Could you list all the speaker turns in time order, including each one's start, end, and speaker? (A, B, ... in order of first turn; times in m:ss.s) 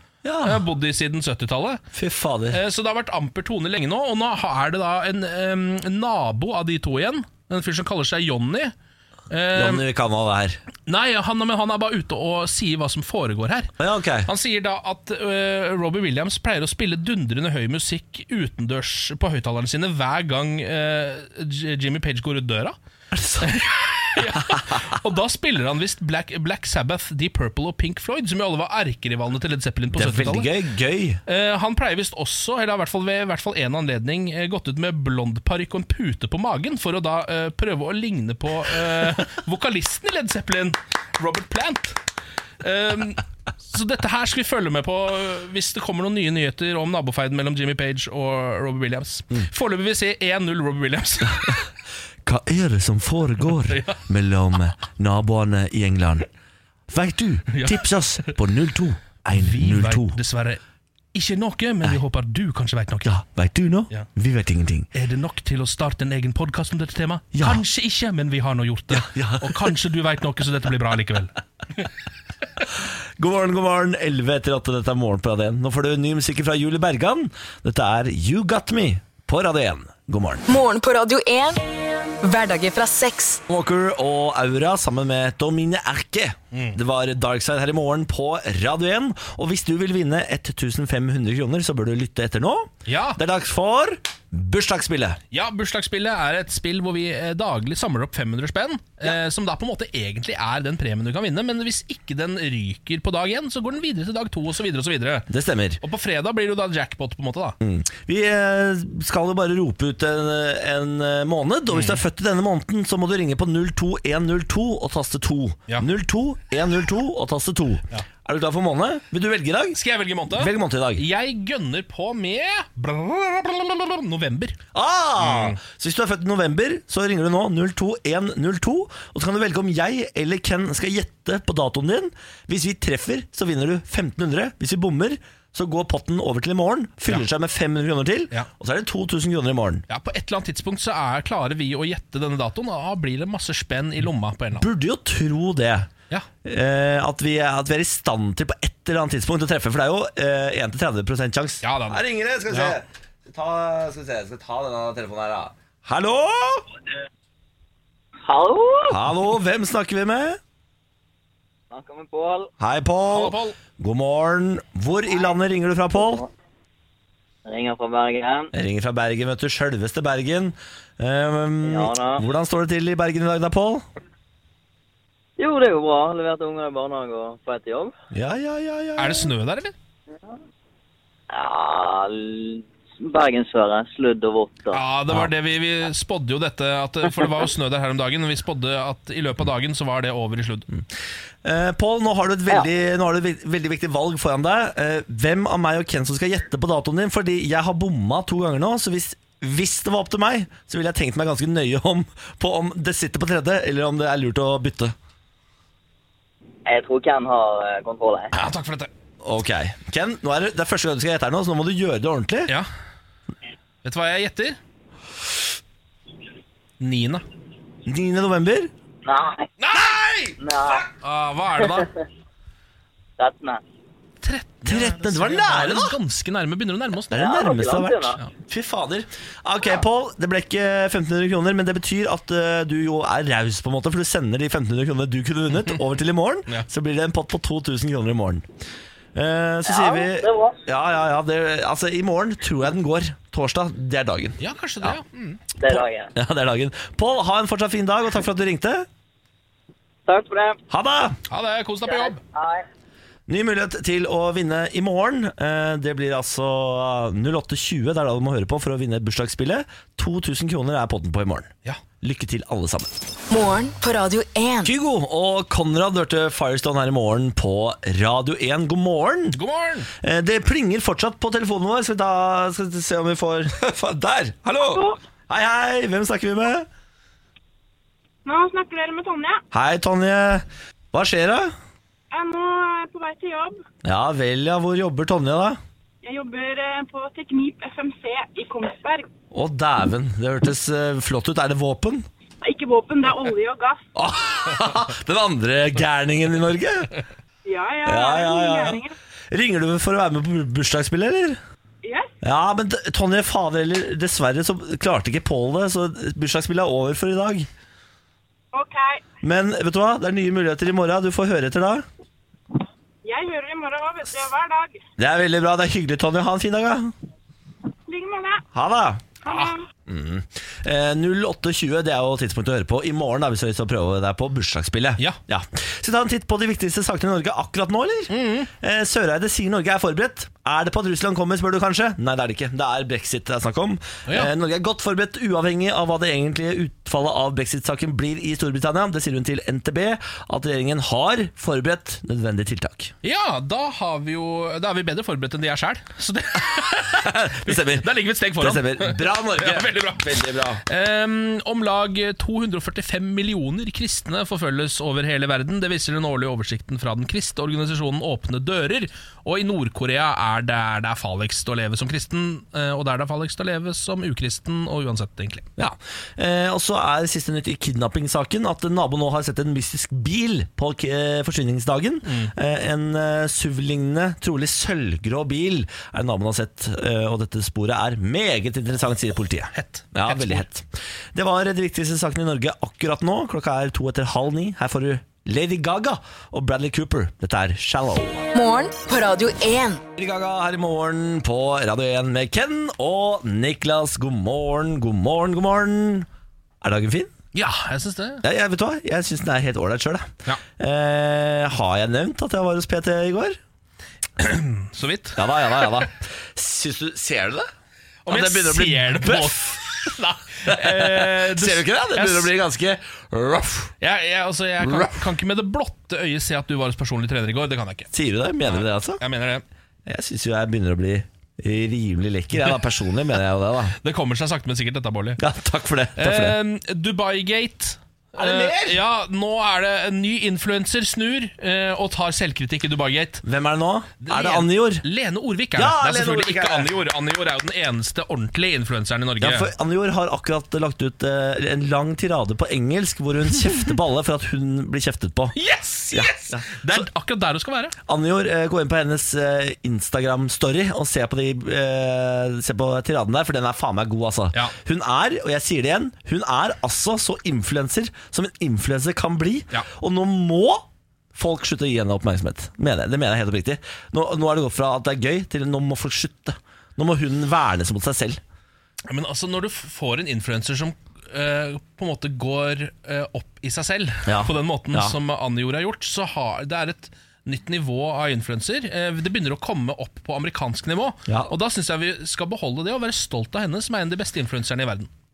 0:00.2-0:00.6 A
0:00.4-0:01.8 B
0:01.9-0:02.6 A
0:02.5-0:08.7 B
0:09.3-0:09.8 B
0:09.5-0:10.6 A
0:10.9-0:13.7 B
0:13.8-0:14.3 A
0:14.2-0:22.8 B
0:23.1-0:23.5 A
0:23.4-0:30.5 B
0:29.9-0:31.2 A
0:31.3-0:42.0 B
0:42.6-0:51.6 B
0:52.2-0:56.3 A
0:53.7-0:54.0 B
0:56.9-1:00.2 A
0:57.5-0:58.3 B
0:59.3-1:00.6 B
1:01.1-1:03.2 B
1:03.0-1:04.9 A
1:04.9-1:11.9 B
1:07.3-1:07.6 A
1:08.9-1:09.8 A
1:13.2-1:20.5 A
1:20.5-1:21.6 C
1:22.2-1:23.4 C
1:23.5-1:35.2 A
1:26.5-1:26.8 B
1:32.9-1:33.2 B
1:35.3-1:45.3 B
1:45.3-1:45.8 A
1:45.8-1:47.6 B
1:47.6-1:59.8 A
1:51.7-1:52.0 B
1:59.7-2:04.6 B
2:00.3-2:01.1 A
2:04.7-2:19.8 A
2:05.2-2:05.6 B
2:19.9-2:24.7 B
2:24.6-2:25.9 A
2:26.4-2:36.7 A
2:31.6-2:32.8 B
2:38.2-2:39.0 D
2:38.9-2:40.4 A
2:41.7-2:42.5 D
2:42.6-2:46.2 A
2:43.1-2:43.6 B
2:46.0-2:46.2 D
2:47.4-2:48.5 D
2:48.5-2:53.8 A
2:51.6-2:52.2 D
2:55.4-2:57.9 D
2:58.1-2:59.3 A
2:59.0-2:59.8 B
3:01.3-3:04.8 D
3:04.7-3:10.7 B
3:11.4-3:25.0 A
3:26.7-3:28.3 D
3:28.3-3:28.9 B
3:29.2-3:32.5 A
3:33.8-3:34.6 B
3:36.8-3:37.2 B
3:37.9-3:38.7 A
3:39.0-3:39.5 D
3:39.6-3:40.4 B
3:39.8-3:40.1 A
3:40.4-3:40.9 D
3:41.0-3:41.9 B
3:43.2-3:43.6 D
3:44.2-3:47.2 B
3:44.7-3:46.0 A
3:47.1-3:58.5 A
3:47.1-3:48.2 D
3:59.2-4:05.0 A
3:59.6-4:00.6 D
4:04.4-4:05.4 B
4:05.6-4:06.1 D
4:05.6-4:08.9 A
4:10.1-4:10.6 D
4:10.7-4:11.2 A
4:11.3-4:12.2 B
4:11.9-4:12.6 D
4:13.3-4:21.5 A
4:22.0-4:22.9 A
4:23.3-4:24.7 C
4:24.6-4:29.4 A
4:29.3-4:29.9 B
4:30.0-4:36.7 A
4:34.7-4:35.0 E
4:38.2-4:39.4 E
4:39.5-4:41.5 A
4:42.1-4:43.6 E
4:43.8-4:45.6 A
4:46.0-4:49.1 E
4:49.3-4:52.1 A
4:52.4-4:53.8 E
4:54.0-4:56.9 A
4:57.4-4:58.9 E
4:57.8-5:01.4 A
5:01.8-5:02.1 E
5:02.2-5:07.5 A
5:08.5-5:09.0 E
5:09.2-5:11.8 A
5:13.0-5:14.8 E
5:15.0-5:16.9 A
5:17.9-5:18.4 E
5:18.5-5:19.0 A
5:19.2-5:19.6 E
5:19.3-5:19.5 B
5:19.9-5:42.9 A
5:28.1-5:28.5 B
5:34.1-5:34.3 B
5:43.0-6:05.5 B
5:46.9-5:50.6 A
6:05.6-6:28.2 A
6:12.0-6:12.3 B
6:19.5-6:20.5 B
6:28.3-6:29.8 C
6:30.0-6:36.1 A
6:36.6-6:37.1 A
6:37.4-6:38.2 B
6:38.2-6:43.4 A
6:44.2-6:45.8 B
6:45.2-6:47.5 A
6:48.0-6:52.3 B
6:48.1-6:49.9 A
6:50.5-6:53.7 A
6:53.8-6:57.9 B
6:54.6-6:55.0 A
6:57.9-6:59.0 A
6:58.4-6:59.4 B
6:59.9-7:03.8 A
7:03.8-7:05.2 B
7:05.2-7:06.4 A
7:06.0-7:13.2 B
7:08.2-7:08.8 A
7:13.2-7:14.8 A
7:14.0-7:19.5 B
7:15.6-7:16.7 A
7:19.2-7:25.4 A
7:25.3-7:27.8 B
7:25.9-7:26.8 A
7:27.9-7:48.2 A
7:48.9-8:04.9 B
7:54.1-7:55.0 A